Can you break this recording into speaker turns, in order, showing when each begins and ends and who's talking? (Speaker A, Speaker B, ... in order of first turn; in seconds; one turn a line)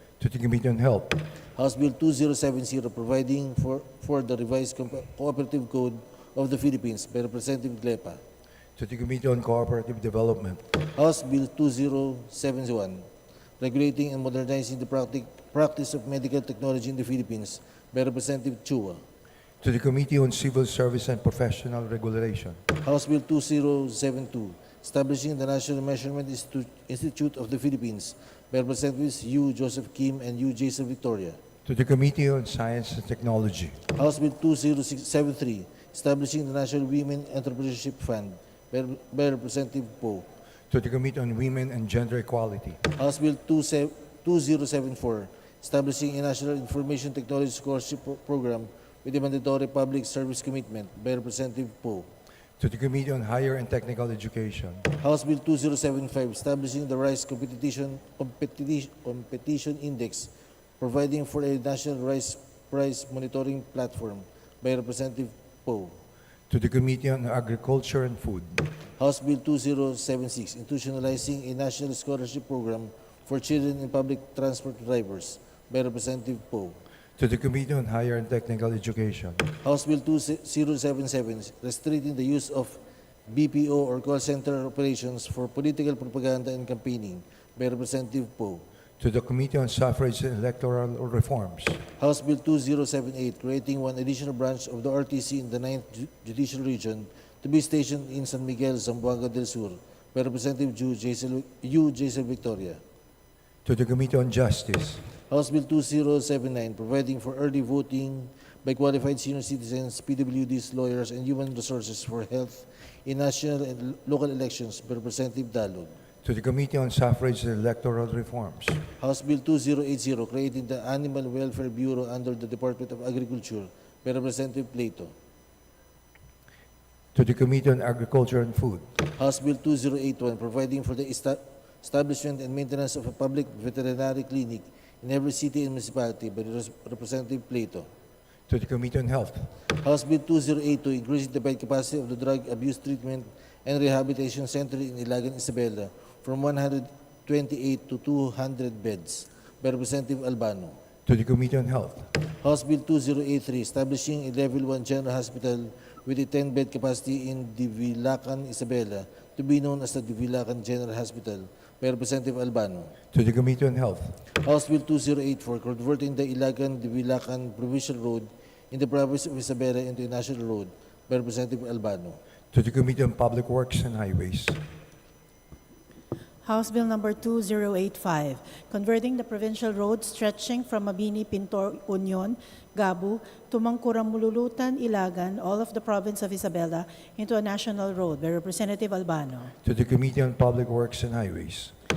Speaker A: 0.2-1.2
Speaker B: 1.6-8.2
Speaker A: 8.8-10.6
Speaker B: 10.8-13.1
Speaker B: 13.6-19.0
Speaker A: 19.6-22.6
Speaker B: 22.8-31.4
Speaker A: 31.6-33.8
Speaker B: 33.9-40.3
Speaker A: 40.7-42.8
Speaker B: 42.9-52.1
Speaker A: 52.6-54.9
Speaker B: 55.0-66.0
Speaker A: 66.5-68.7
Speaker B: 69.0-76.8
Speaker A: 77.2-79.5
Speaker B: 79.6-88.6
Speaker A: 89.0-91.8
Speaker B: 92.0-102.8
Speaker A: 103.7-105.0
Speaker B: 105.3-115.9
Speaker A: 116.2-118.8
Speaker B: 119.0-125.1
Speaker A: 127.1-128.8
Speaker B: 129.1-137.9
Speaker A: 138.5-139.5
Speaker B: 139.7-150.8
Speaker A: 151.1-152.1
Speaker B: 152.4-162.9
Speaker A: 163.1-164.2
Speaker B: 164.3-172.2
Speaker A: 172.5-174.6
Speaker C: 176.4-189.5
Speaker A: 189.6-191.7